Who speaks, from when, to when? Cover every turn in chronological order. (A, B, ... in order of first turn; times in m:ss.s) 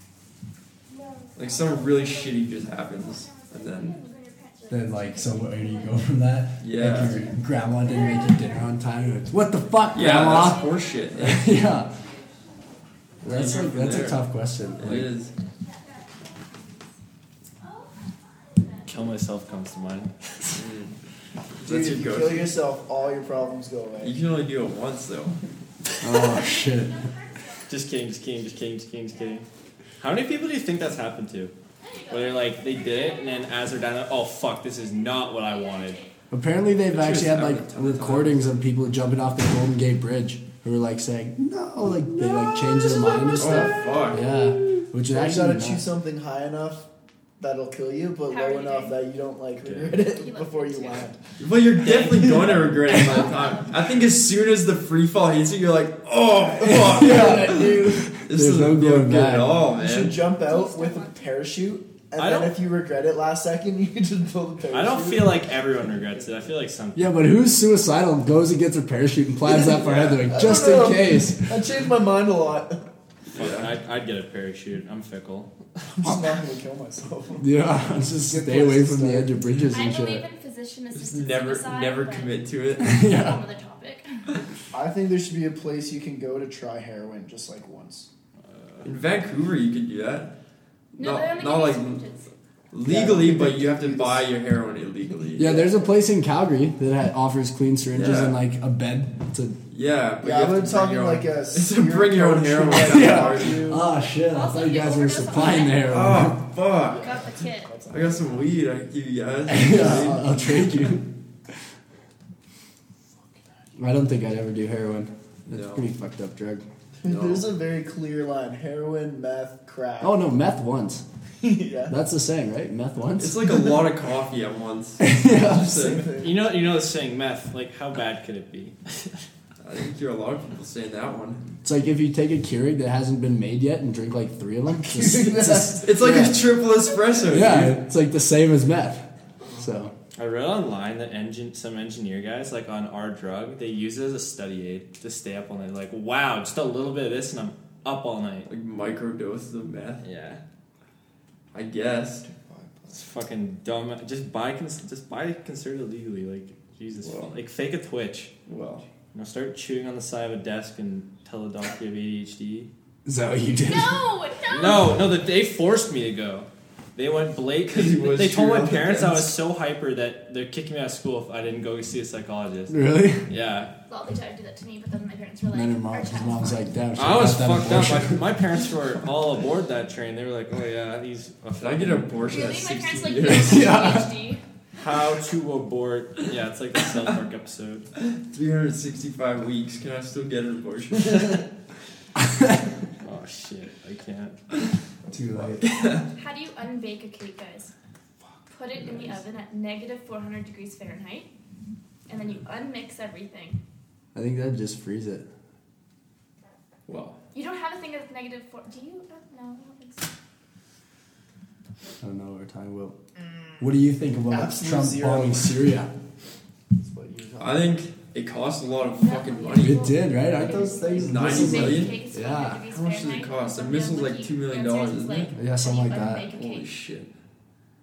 0:00.9-0:06.2 A
0:01.4-0:04.0 B
0:04.7-0:12.0 C
0:06.6-0:07.2 B
0:06.8-0:08.8 A
0:09.9-0:12.7 A
0:09.9-0:11.5 B
0:13.2-0:14.2 B
0:13.2-0:15.1 C
0:13.3-0:13.9 A
0:14.6-0:16.9 A
0:14.8-0:15.3 B
0:17.6-0:20.6 A
0:18.9-0:20.1 D
0:20.5-0:20.9 B
0:21.6-0:22.5 B
0:21.6-0:24.2 E
0:22.6-0:23.7 A
0:24.0-0:25.4 B
0:26.0-0:27.0 C
0:26.1-0:29.5 A
0:27.7-0:29.5 D
0:30.0-0:31.5 D
0:31.8-0:34.0 A
0:32.1-0:36.0 D
0:34.8-0:36.2 A
0:36.3-0:45.8 C
0:36.9-0:38.5 B
0:42.2-0:44.6 A
0:43.4-0:44.3 B
0:45.1-0:46.9 E
0:47.4-0:51.2 E
0:48.3-0:49.0 A
0:49.6-0:49.9 B
0:50.0-0:51.2 A
0:51.4-1:00.2 B
0:51.8-0:54.1 A
0:51.8-0:52.8 E
0:56.6-0:58.1 E
0:56.6-0:59.6 C
0:59.7-1:06.5 E
1:00.4-1:01.2 A
1:02.2-1:02.6 D
1:04.7-1:07.1 D
1:07.0-1:11.6 C
1:09.4-1:12.9 E
1:09.8-1:10.2 D
1:13.3-1:13.8 B
1:13.3-1:15.6 D
1:15.9-1:19.4 E
1:17.4-1:20.2 C
1:19.7-1:24.2 A
1:20.9-1:23.0 B
1:22.8-1:23.4 C
1:24.7-1:28.1 E
1:28.8-1:30.3 B
1:31.0-1:32.3 A
1:31.0-1:32.0 B
1:32.7-1:35.5 B
1:32.8-1:34.3 E
1:35.4-1:35.9 E
1:35.4-1:39.6 C
1:37.9-1:38.4 B
1:39.7-1:43.7 B
1:40.2-1:43.8 E
1:42.7-1:46.4 C
1:44.2-1:45.9 A
1:45.8-1:47.3 B
1:46.8-1:48.6 E
1:46.9-1:47.8 A
1:47.9-1:50.7 B
1:49.5-1:51.1 C
1:49.7-1:50.6 E
1:53.8-1:56.6 C
1:55.5-1:55.9 B
1:57.0-2:00.3 E
1:57.0-1:57.5 B
2:00.0-2:01.0 C
2:01.4-2:02.0 E
2:01.9-2:03.6 C
2:03.2-2:06.1 B
2:05.0-2:05.8 C
2:05.3-2:06.6 E
2:06.2-2:09.2 D
2:09.6-2:11.4 B
2:11.6-2:16.5 C
2:14.7-2:16.1 E
2:15.8-2:17.8 B
2:17.3-2:19.1 C
2:19.6-2:19.9 C
2:20.2-2:28.5 D
2:28.5-2:30.0 B
2:30.0-2:30.4 D
2:31.5-2:32.3 B
2:32.2-2:33.0 E
2:32.9-2:38.4 D
2:37.0-2:37.4 B
2:38.5-2:38.8 B
2:39.1-2:42.7 D
2:43.1-2:44.0 C
2:43.7-2:45.0 A
2:44.5-2:52.8 D
2:47.6-2:49.4 B
2:52.7-2:53.3 C
2:53.3-2:53.8 D
2:53.9-2:56.8 A
2:55.5-2:58.3 C
2:57.0-3:02.3 D
3:01.6-3:03.8 B
3:02.2-3:04.4 A
3:03.3-3:04.1 C
3:04.8-3:07.9 D
3:06.8-3:07.0 B
3:08.0-3:11.5 B
3:13.0-3:14.4 D
3:15.1-3:15.7 C
3:15.3-3:16.1 B
3:16.2-3:17.7 A
3:18.5-3:21.3 A
3:18.8-3:19.2 B
3:22.1-3:23.6 A
3:24.2-3:25.3 C
3:26.9-3:27.2 B
3:27.3-3:30.1 A
3:32.0-3:33.0 C
3:33.6-3:35.9 C
3:34.3-3:35.6 E
3:36.8-3:37.8 E
3:37.4-3:39.9 B
3:38.9-3:46.7 A
3:39.6-3:42.6 C
3:41.0-3:42.0 B
3:42.7-3:45.4 B
3:45.3-3:46.3 C
3:46.3-3:47.1 B